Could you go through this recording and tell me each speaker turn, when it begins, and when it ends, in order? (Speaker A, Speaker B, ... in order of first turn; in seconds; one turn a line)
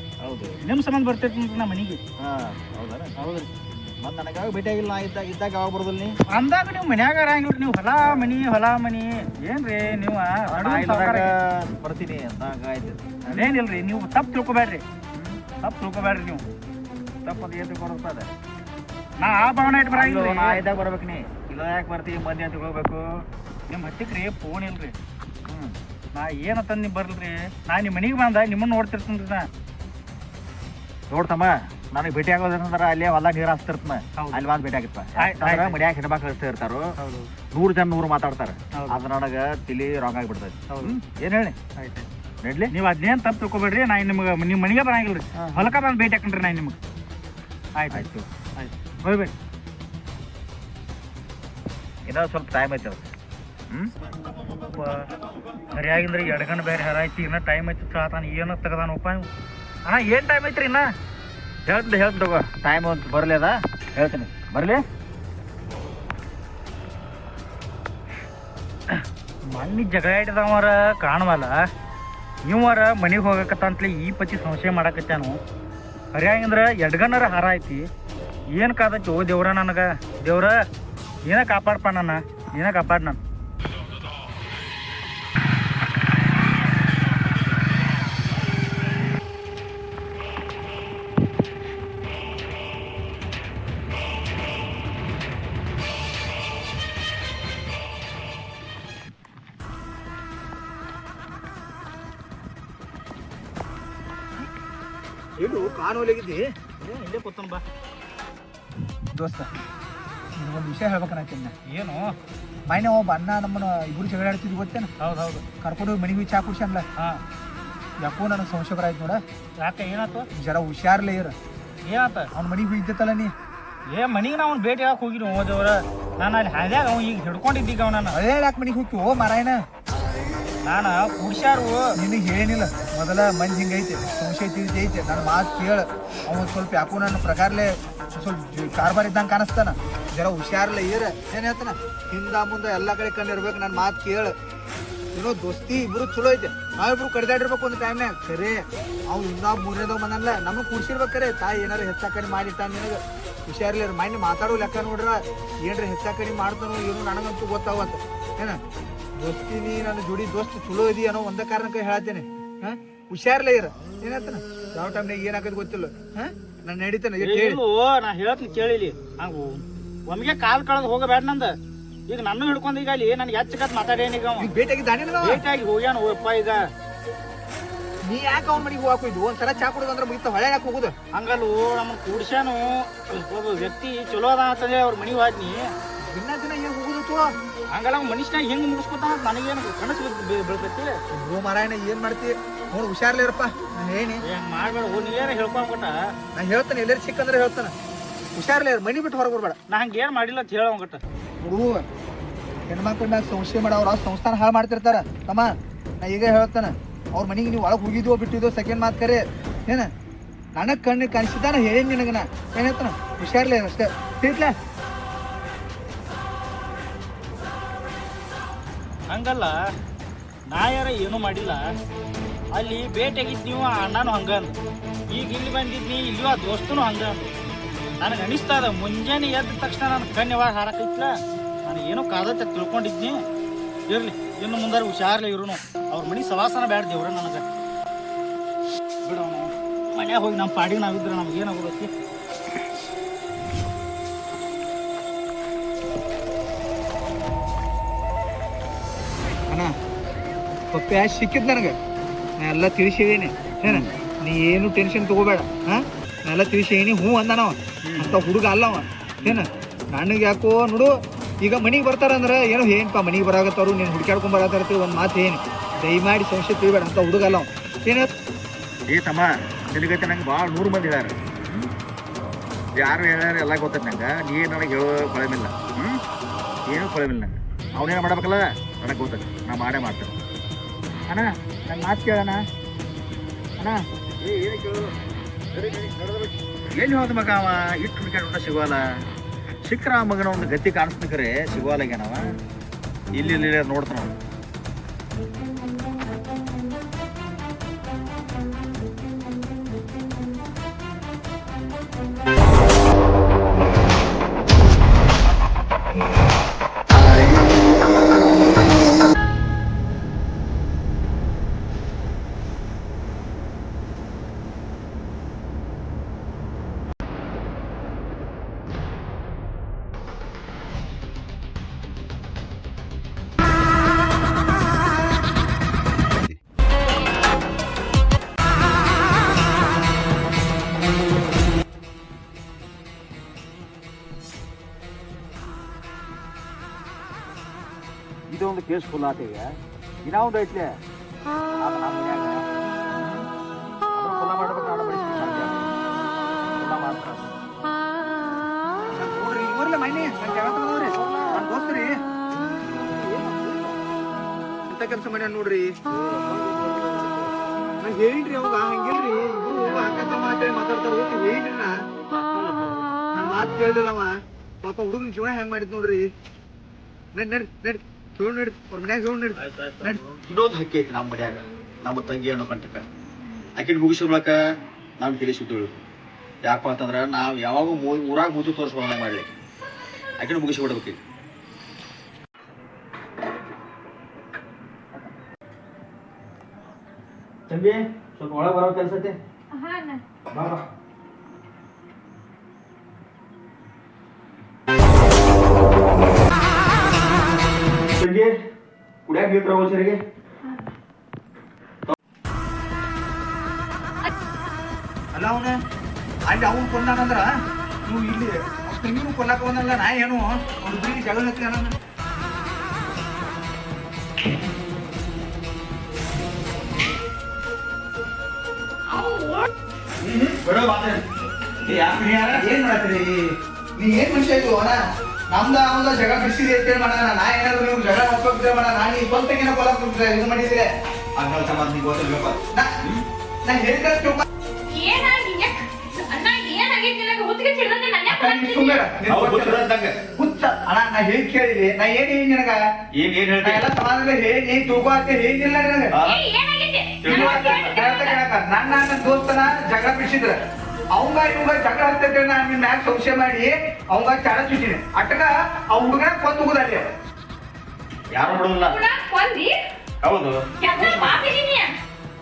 Speaker A: 0.2-0.6
Speaker B: 0.6-2.0
Speaker A: 2.2-3.1
Speaker B: 3.2-3.5
Speaker A: 3.8-6.2
Speaker B: 6.3-11.3
Speaker A: 10.5-13.5
Speaker B: 13.3-14.8
Speaker A: 15.1-15.4
Speaker B: 15.6-16.4
Speaker A: 17.2-18.3
Speaker B: 19.2-20.6
Speaker A: 19.9-23.2
Speaker B: 23.7-25.0
Speaker A: 25.4-25.8
Speaker B: 26.1-29.5
Speaker A: 31.1-36.9
Speaker B: 34.2-34.4
Speaker B: 35.2-35.8
Speaker B: 37.0-37.3
Speaker A: 37.5-41.6
Speaker B: 38.7-39.0
Speaker B: 40.7-41.0
Speaker B: 41.8-42.1
Speaker A: 42.4-42.7
Speaker B: 42.7-46.8
Speaker B: 47.8-48.0
Speaker A: 47.9-48.3
Speaker B: 48.6-49.3
Speaker A: 52.1-53.0
Speaker B: 54.8-55.1
Speaker B: 55.7-59.3
Speaker B: 59.9-60.9
Speaker A: 61.7-64.8
Speaker B: 69.5-71.6
Speaker B: 72.5-75.4
Speaker B: 76.1-77.9
Speaker B: 78.5-80.6
Speaker B: 81.3-83.2
Speaker C: 105.4-106.5
Speaker B: 106.8-107.6
Speaker C: 109.2-109.5
Speaker C: 110.4-111.5
Speaker B: 111.7-112.1
Speaker C: 112.7-114.9
Speaker B: 115.0-115.4
Speaker C: 115.6-116.9
Speaker C: 118.0-119.2
Speaker B: 119.6-120.3
Speaker C: 120.4-121.4
Speaker B: 121.8-122.3
Speaker C: 122.3-123.3
Speaker B: 123.9-128.2
Speaker C: 128.1-129.6
Speaker B: 130.6-131.9
Speaker C: 132.0-144.3
Speaker C: 145.1-158.6
Speaker C: 159.2-167.6
Speaker B: 167.2-171.6
Speaker B: 172.1-174.5
Speaker C: 174.4-175.4
Speaker B: 175.2-176.6
Speaker C: 178.0-180.9
Speaker B: 181.1-185.7
Speaker C: 186.0-187.3
Speaker B: 187.7-190.9
Speaker C: 191.1-194.2
Speaker B: 194.2-195.9
Speaker C: 196.3-197.7
Speaker C: 198.3-199.6
Speaker B: 199.7-201.0
Speaker C: 201.4-201.9
Speaker C: 202.7-209.9
Speaker C: 210.5-214.5
Speaker B: 219.1-219.6
Speaker B: 220.5-221.6
Speaker B: 222.5-224.6
Speaker B: 225.1-227.3
Speaker B: 228.0-233.2
Speaker B: 233.9-237.4
Speaker B: 239.0-241.9
Speaker C: 249.5-249.8
Speaker C: 250.7-251.8
Speaker C: 252.4-268.1
Speaker A: 253.7-253.9
Speaker A: 268.9-271.7
Speaker A: 272.8-276.0
Speaker A: 276.7-280.2
Speaker C: 281.7-282.4
Speaker A: 283.6-284.9
Speaker A: 285.5-288.8
Speaker A: 289.6-292.2
Speaker A: 293.1-294.2
Speaker A: 338.3-339.5
Speaker A: 340.0-340.7
Speaker A: 341.6-343.3
Speaker A: 344.0-345.8
Speaker A: 346.4-347.4
Speaker C: 349.0-352.0
Speaker A: 350.9-351.4
Speaker A: 352.7-353.8
Speaker C: 354.7-355.8
Speaker A: 355.9-357.3
Speaker C: 357.8-361.8
Speaker C: 363.1-366.1
Speaker C: 367.1-370.0
Speaker B: 369.4-370.2
Speaker A: 370.2-372.9
Speaker A: 373.6-374.4
Speaker A: 375.0-375.8
Speaker A: 376.4-379.3
Speaker A: 380.2-381.0
Speaker A: 387.5-389.2
Speaker D: 389.5-390.0
Speaker A: 390.3-390.6
Speaker A: 398.0-398.4
Speaker A: 399.1-400.0
Speaker C: 405.1-405.6
Speaker C: 406.3-407.3
Speaker C: 407.9-411.8
Speaker D: 418.9-419.5
Speaker A: 420.0-421.1
Speaker A: 421.6-422.6
Speaker C: 422.3-430.7
Speaker A: 431.2-433.1
Speaker C: 433.4-434.2
Speaker D: 434.7-438.8
Speaker C: 438.1-439.6
Speaker A: 439.1-440.1
Speaker C: 440.2-442.6
Speaker A: 442.9-443.7
Speaker C: 443.4-445.9
Speaker A: 445.9-446.2
Speaker D: 446.0-448.2
Speaker A: 447.0-447.8
Speaker C: 447.1-450.4
Speaker C: 450.9-456.9
Speaker A: 458.1-458.8
Speaker D: 458.4-459.6
Speaker A: 460.0-461.3
Speaker D: 460.6-461.7